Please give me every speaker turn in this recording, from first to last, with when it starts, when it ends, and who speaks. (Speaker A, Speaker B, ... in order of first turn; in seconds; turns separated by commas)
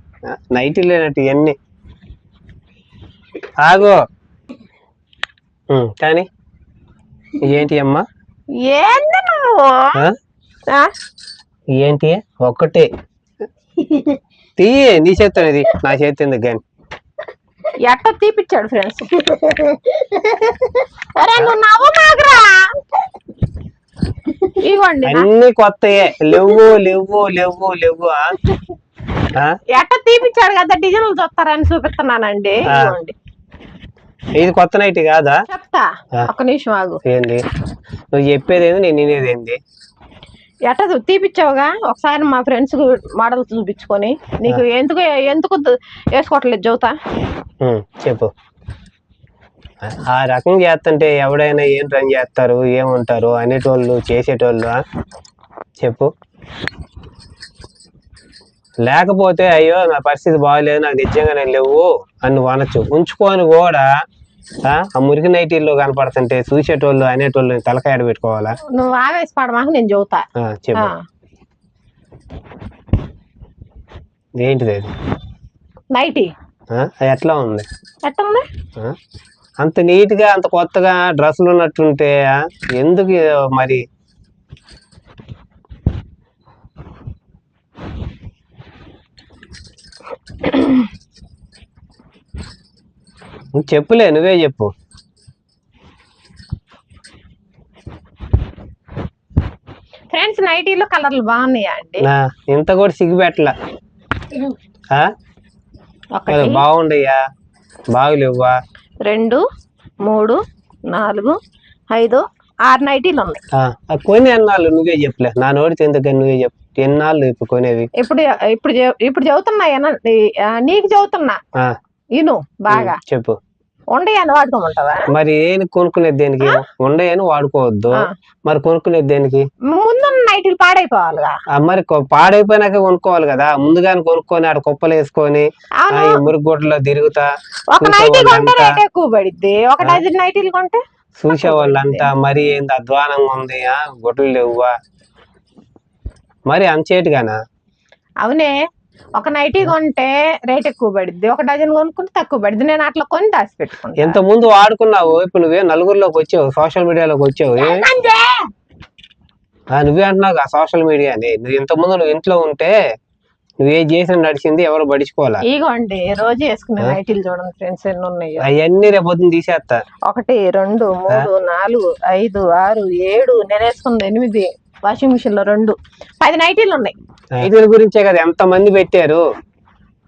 Speaker A: 0.3-1.6, Speaker A: 3.6-4.0, Speaker A: 5.7-6.3, Speaker A: 7.4-8.1, Speaker B: 8.6-10.0, Speaker A: 11.8-12.9, Speaker A: 14.6-16.6, Speaker B: 17.8-19.8, Speaker B: 21.2-22.6, Speaker B: 24.5-25.3, Speaker A: 25.1-28.4, Speaker B: 29.7-33.1, Speaker A: 34.4-35.4, Speaker B: 35.5-37.0, Speaker A: 37.1-37.4, Speaker A: 38.1-39.6, Speaker B: 40.7-47.0, Speaker A: 47.6-48.3, Speaker A: 49.8-54.8, Speaker A: 55.8-56.1, Speaker A: 58.8-63.9, Speaker A: 64.7-68.6, Speaker B: 68.7-71.0, Speaker A: 70.4-70.9, Speaker A: 74.4-74.9, Speaker B: 76.0-76.3, Speaker A: 76.7-77.7, Speaker B: 78.0-78.5, Speaker A: 79.6-83.8, Speaker A: 93.6-94.7, Speaker B: 100.1-102.0, Speaker A: 102.0-103.5, Speaker B: 106.2-106.6, Speaker A: 106.3-107.2, Speaker A: 107.9-108.5, Speaker B: 109.0-109.4, Speaker B: 110.0-110.4, Speaker B: 110.9-111.4, Speaker B: 111.9-113.4, Speaker A: 113.6-117.9, Speaker B: 118.0-121.4, Speaker B: 122.2-123.0, Speaker A: 122.7-123.4, Speaker B: 123.9-125.0, Speaker A: 125.1-129.4, Speaker B: 129.7-131.3, Speaker A: 131.5-137.3, Speaker B: 135.8-136.3, Speaker B: 137.7-142.1, Speaker A: 137.8-138.8, Speaker A: 141.2-144.7, Speaker A: 146.5-147.4, Speaker B: 148.2-148.5, Speaker B: 149.2-154.2, Speaker A: 154.0-157.8, Speaker B: 157.6-158.4, Speaker A: 159.8-162.7, Speaker A: 163.6-165.4, Speaker B: 165.5-168.5, Speaker A: 168.4-169.8, Speaker B: 170.1-176.9, Speaker A: 177.4-179.2